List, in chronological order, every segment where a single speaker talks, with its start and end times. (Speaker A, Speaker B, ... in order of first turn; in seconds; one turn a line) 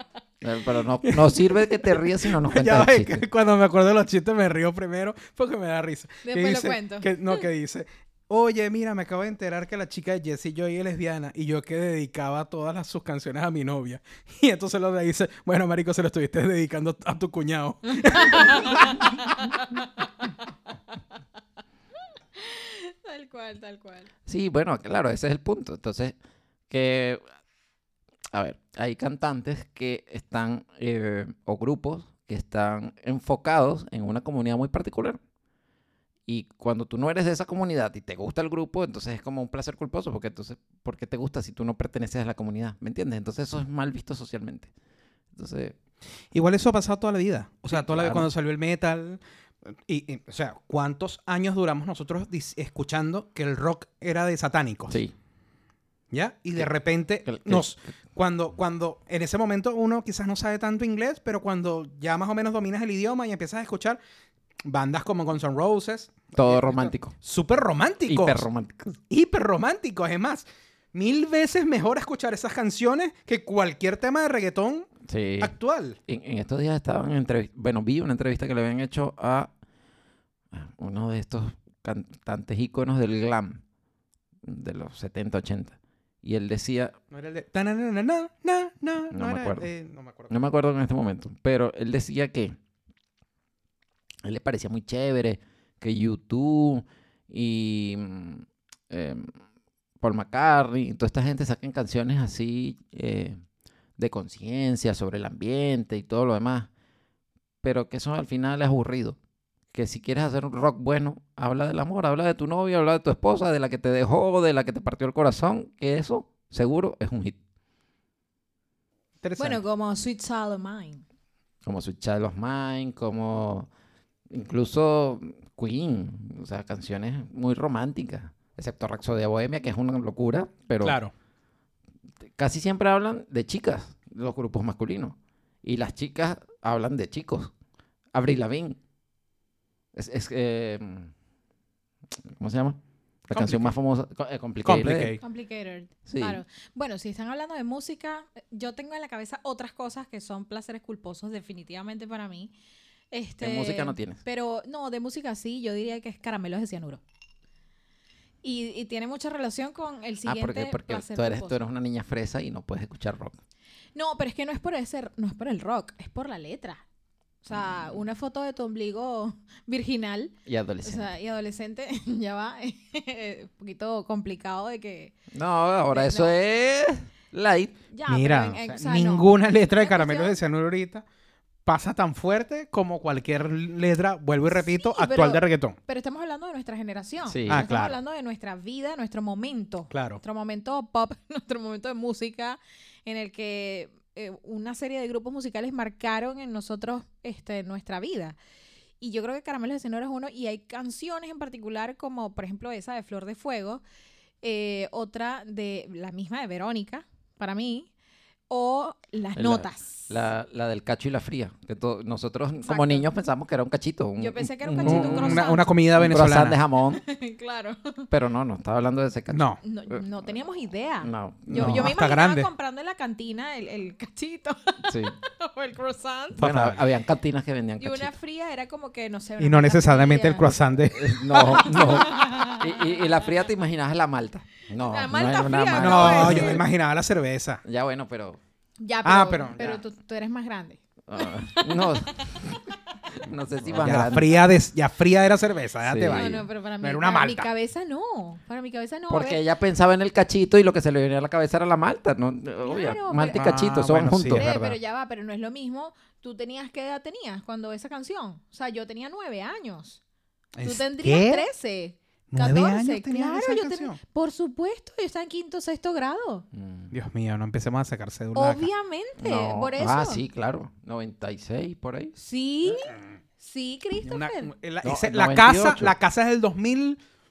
Speaker A: 0.4-3.2
Speaker B: 1.0-19.1
Speaker C: 6.2-7.4
Speaker C: 18.2-19.5
Speaker C: 22.4-24.1
Speaker A: 24.3-26.1
Speaker A: 26.7-27.2
Speaker A: 28.3-35.2
Speaker A: 36.3-44.7
Speaker A: 45.3-45.8
Speaker B: 46.3-49.2
Speaker A: 47.7-48.3
Speaker B: 49.9-55.0
Speaker A: 54.9-55.1
Speaker B: 56.1-64.0
Speaker A: 57.2-57.7
Speaker B: 64.7-68.5
Speaker A: 66.3-67.2
Speaker A: 68.1-69.0
Speaker B: 69.1-76.0
Speaker A: 75.0-75.5
Speaker A: 76.1-79.5
Speaker A: 80.5-83.6
Speaker A: 84.4-87.0
Speaker B: 87.1-90.4
Speaker A: 89.1-89.7
Speaker A: 90.3-92.6
Speaker A: 94.2-99.3
Speaker A: 100.0-103.4
Speaker A: 104.0-106.7
Speaker A: 107.6-109.2
Speaker A: 109.7-117.4
Speaker B: 119.2-119.6
Speaker C: 119.4-121.0
Speaker A: 121.7-123.7
Speaker A: 124.3-131.0
Speaker B: 130.8-131.1
Speaker A: 132.2-137.5
Speaker A: 138.1-138.8
Speaker A: 139.9-141.1
Speaker A: 142.2-145.2
Speaker B: 143.3-143.7
Speaker B: 144.7-145.2
Speaker C: 145.2-152.5
Speaker A: 146.1-146.4
Speaker C: 153.1-157.0
Speaker A: 153.4-154.2
Speaker C: 158.4-161.6
Speaker A: 160.3-163.4
Speaker C: 163.9-166.8
Speaker C: 167.4-175.2
Speaker A: 167.5-168.0
Speaker A: 170.5-171.1
Speaker A: 175.3-177.8
Speaker C: 175.9-176.3
Speaker C: 177.9-180.4
Speaker B: 178.1-181.1
Speaker B: 181.7-185.8
Speaker C: 184.5-198.4
Speaker A: 187.2-187.7
Speaker B: 187.5-188.0
Speaker B: 189.9-190.2
Speaker C: 199.0-203.8
Speaker C: 204.4-207.9
Speaker C: 208.5-210.2
Speaker A: 209.4-217.0
Speaker C: 212.6-213.1
Speaker C: 214.2-215.7
Speaker B: 214.8-216.6
Speaker C: 217.0-218.1
Speaker A: 218.1-220.0
Speaker B: 219.3-219.6
Speaker C: 219.6-226.5
Speaker A: 221.0-221.9
Speaker B: 221.5-222.5
Speaker A: 224.9-225.2
Speaker B: 226.4-226.8
Speaker A: 226.4-228.1
Speaker C: 227.8-230.6
Speaker B: 229.4-231.6
Speaker A: 230.9-236.6
Speaker C: 231.3-233.1
Speaker C: 234.7-236.6
Speaker B: 235.8-237.6
Speaker A: 237.6-238.4
Speaker C: 238.8-242.3
Speaker B: 239.0-239.8
Speaker A: 241.1-244.4
Speaker B: 243.8-247.5
Speaker A: 245.8-246.5
Speaker C: 246.1-249.4
Speaker A: 249.1-254.8
Speaker C: 252.6-253.5
Speaker B: 253.2-254.6
Speaker C: 254.3-260.0
Speaker B: 260.6-261.5
Speaker C: 260.6-266.5
Speaker B: 262.3-264.0
Speaker A: 266.5-266.9
Speaker B: 266.9-268.7
Speaker C: 268.4-270.2
Speaker A: 269.2-272.1
Speaker C: 272.2-274.5
Speaker B: 274.0-277.0
Speaker A: 274.8-275.9